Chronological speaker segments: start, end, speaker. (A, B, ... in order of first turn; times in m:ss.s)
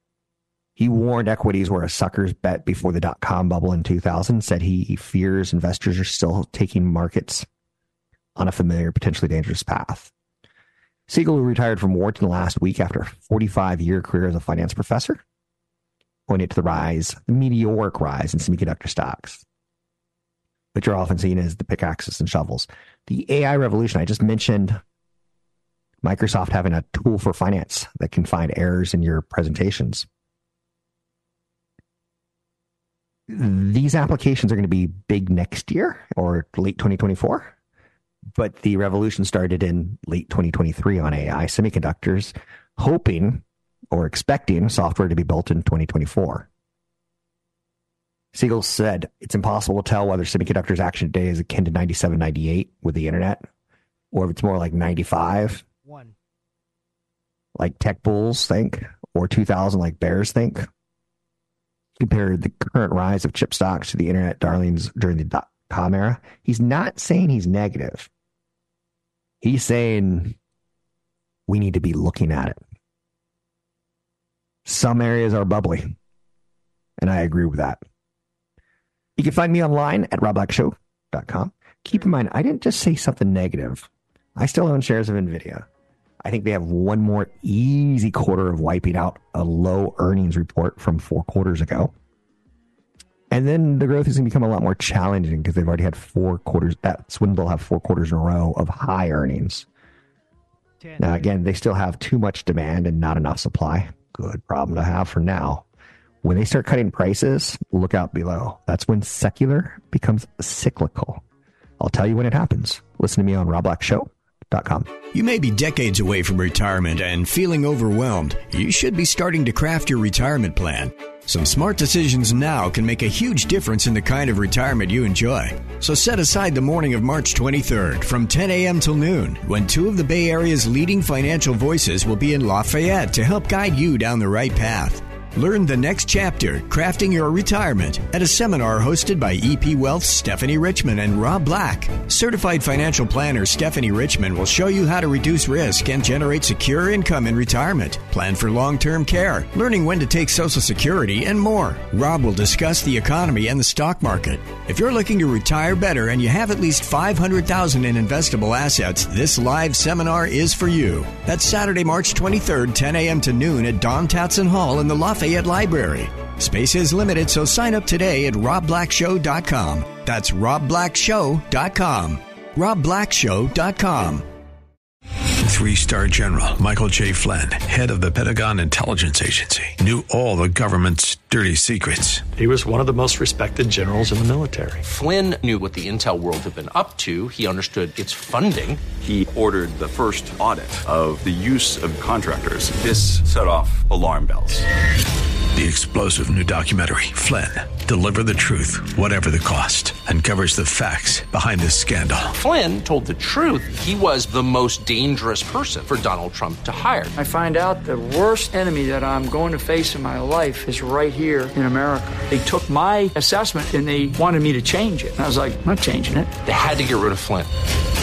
0:00.8-0:07.5 A
0:08.4-0:10.1 A
0:11.1-0:15.2 A
0:16.3-0:19.4 A
0:20.7-0:24.8 A
0:26.0-0:30.0 A
0:33.3-0:37.5 A
0:38.4-0:46.5 A
0:48.3-0:53.4 A
0:54.1-0:55.6 A
0:57.6-1:00.7 A
1:02.0-1:08.1 A
1:09.4-1:10.4 A
1:11.5-1:12.6 A
1:14.6-1:16.0 A
1:17.0-1:17.8 A
1:19.2-1:25.6 A
1:26.2-1:31.9 A
1:33.3-1:39.6 A
1:41.0-1:45.6 A
1:46.2-1:51.2 A
1:51.8-1:54.9 A
1:55.1-2:54.2 B
2:55.4-3:02.2 C
3:02.3-3:04.8 D
3:04.8-3:08.8 E
3:09.0-3:14.6 F
3:15.5-3:22.3 C
3:22.4-3:27.1 E
3:27.2-3:36.3 G
3:36.4-3:37.5 E